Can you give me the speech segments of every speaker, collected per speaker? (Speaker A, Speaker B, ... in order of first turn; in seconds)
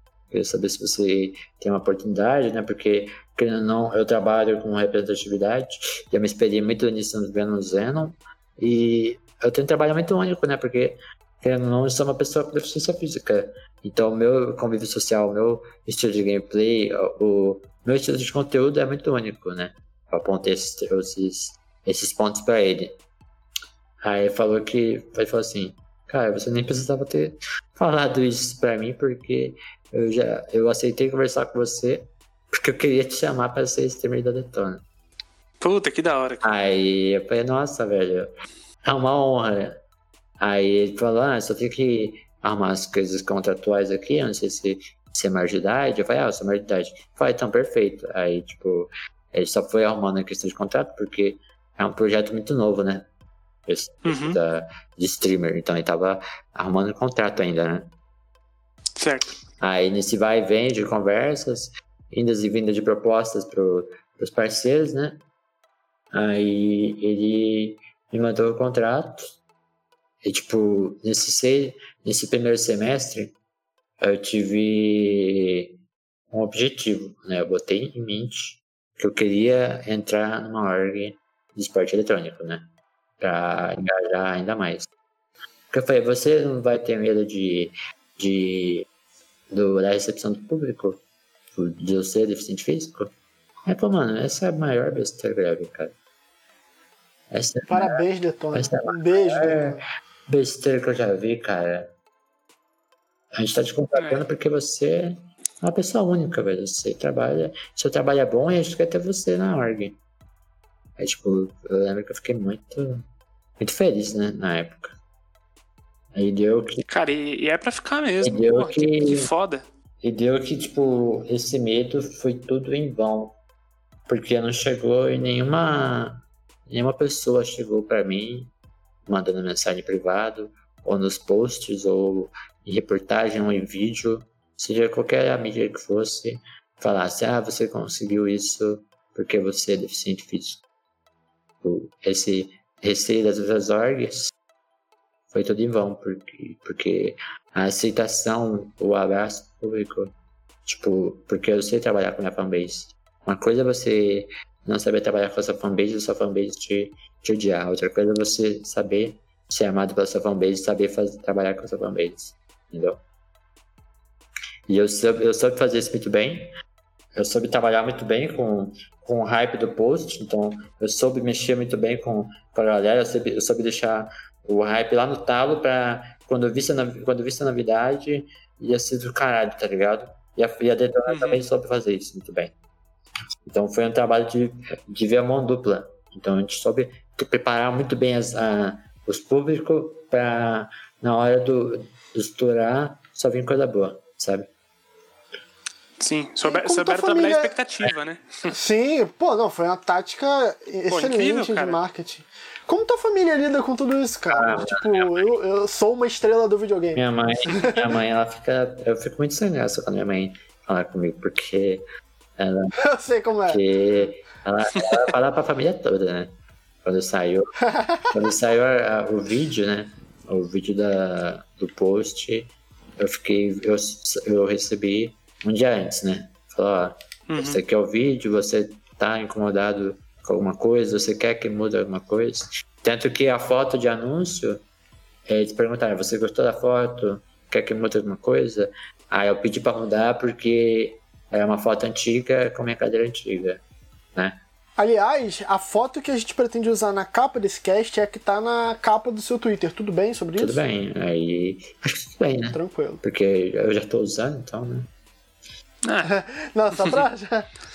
Speaker A: 0.3-23.0, 24.0-34.8, 36.4-38.3, 38.9-39.8, 40.4-53.1, 53.7-57.9, 59.6-65.2, 66.1-69.3, 70.2-73.3, 74.0-75.8, 76.3-82.7, 83.2-84.9, 85.7-88.9, 89.5-91.0, 91.6-93.1, 93.7-95.9, 97.3-101.9, 103.3-110.0, 111.0-113.0, 113.6-115.0, 116.1-116.8, 118.2-119.3, 120.0-123.4, 124.1-128.5, 129.1-140.6, 141.6-144.3, 145.3-150.1, 150.7-163.0, 164.7-166.5, 167.2-182.5, 183.5-194.5, 204.3-205.3, 206.9-211.8, 212.4-212.8, 213.5-217.5, 218.1-234.6, 235.3-243.6, 244.2-244.4, 250.4-254.9
Speaker B: 35.6-36.5, 54.0-54.4, 59.0-59.3, 104.0-104.2, 116.9-119.6, 181.1-181.4, 196.0-198.5, 200.9-201.8, 227.3-227.6, 255.8-256.1, 256.8-257.1
Speaker C: 97.7-99.8, 196.4-197.5, 198.5-207.8, 212.8-213.6, 217.6-218.1, 244.8-250.6, 252.5-253.0, 256.1-257.5